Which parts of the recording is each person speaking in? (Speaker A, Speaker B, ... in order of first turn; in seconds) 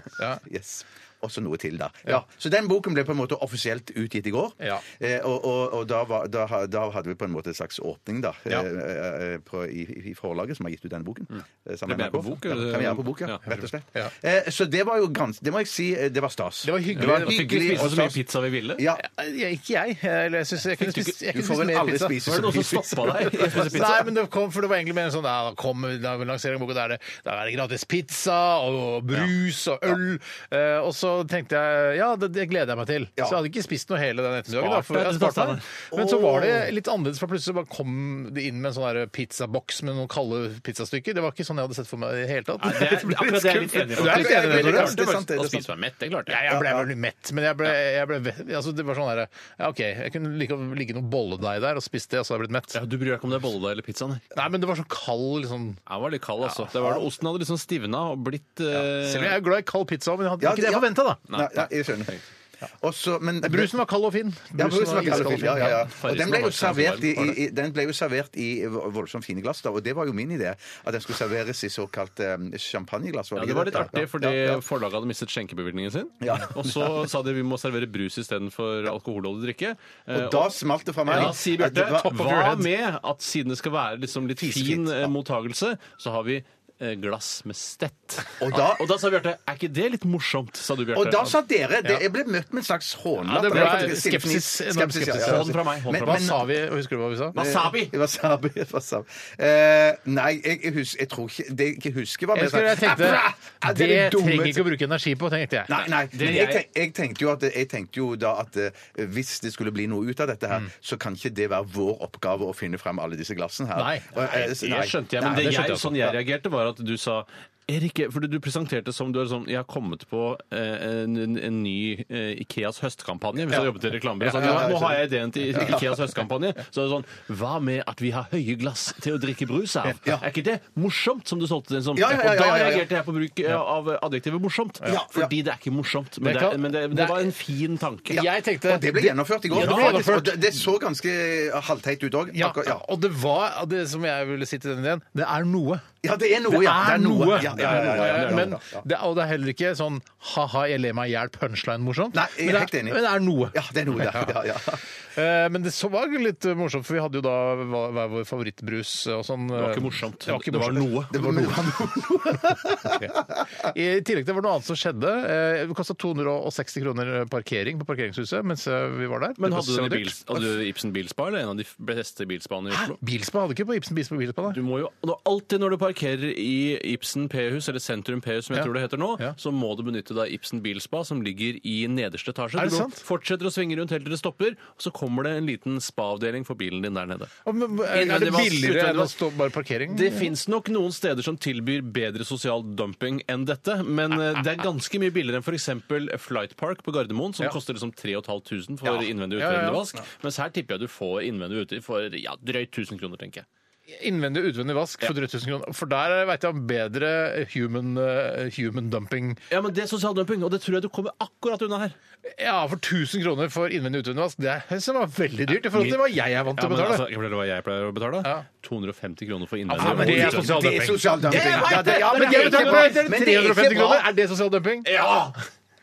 Speaker A: 0.2-0.4, 13.5-14.1, 16.6-18.2, 19.0-22.2, 23.5-45.2, 46.3-52.8, 54.3-55.8, 58.8-61.2, 63.4-65.9, 81.1-81.4, 82.0-82.7, 93.2-97.3, 102.3-105.8, 113.8-114.1, 115.2-116.1, 136.2-137.3, 138.1-140.5, 142.3-145.8, 146.5-154.4, 155.1-161.8, 162.8-170.4, 172.7-174.6, 178.5-179.3, 182.6-183.0, 187.4-190.3, 198.9-199.9, 203.9-209.4, 212.2-217.0, 219.7-224.9
Speaker B: 0.4-18.0, 18.8-19.0, 21.3-23.7, 35.9-36.7, 43.9-45.7, 46.5-46.9, 60.4-62.1, 62.8-63.7, 64.6-74.6, 76.2-76.9, 80.1-82.3, 84.4-85.1, 88.4-88.8, 90.9-96.4, 97.3-104.6, 105.7-115.7, 124.2-126.0, 131.9-132.9, 134.8-135.3, 138.1-142.8, 146.0-148.8, 152.1-154.8, 161.1-163.4, 219.8-224.1
Speaker C: 11.9-13.4, 16.9-18.8, 22.2-24.0, 34.5-35.7, 42.6-46.4, 52.7-54.3, 55.9-59.4, 61.3-62.2, 65.8-67.4, 73.3-91.3, 93.5-94.0, 95.1-96.3, 97.3-97.9, 106.1-106.6, 114.3-138.2, 139.5-140.1, 147.4-148.6, 159.5-161.4, 169.4-173.0, 174.5-187.3, 187.9-189.1, 189.9-203.4, 209.5-211.9, 215.6-220.5, 221.2-223.0, 224.8-225.4